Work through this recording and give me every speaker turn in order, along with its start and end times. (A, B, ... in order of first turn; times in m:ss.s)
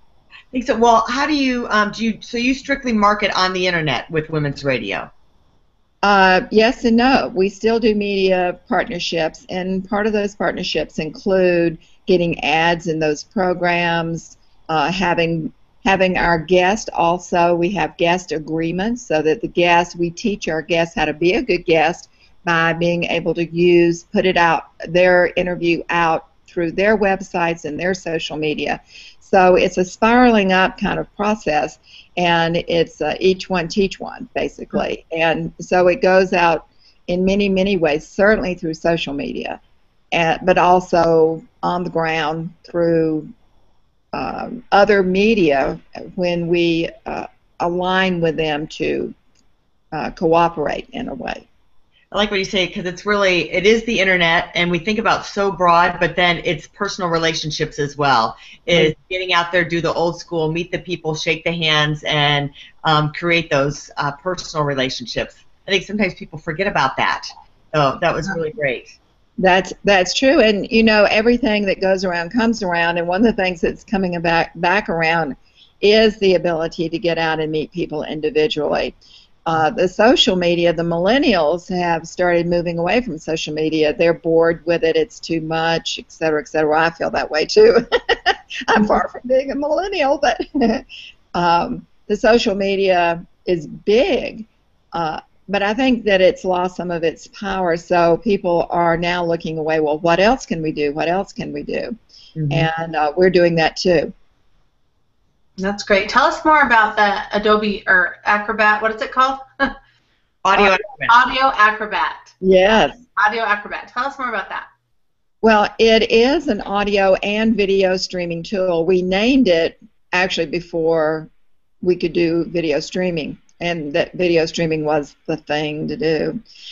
0:00.5-0:05.1 A
0:06.0-0:39.6 B
0:40.1-0:43.3 B
0:44.1-0:49.2 B
0:49.9-0:51.5 B
0:52.1-1:09.0 A
1:09.4-1:19.0 B
1:19.5-1:42.0 B
1:42.4-1:42.7 A
1:42.5-1:44.1 B
1:45.6-1:49.8 C
1:50.4-1:51.2 A
1:50.6-1:52.4 C
1:52.4-1:53.0 B
1:53.0-1:54.7 C
1:55.4-2:01.3 B
2:01.8-2:06.4 B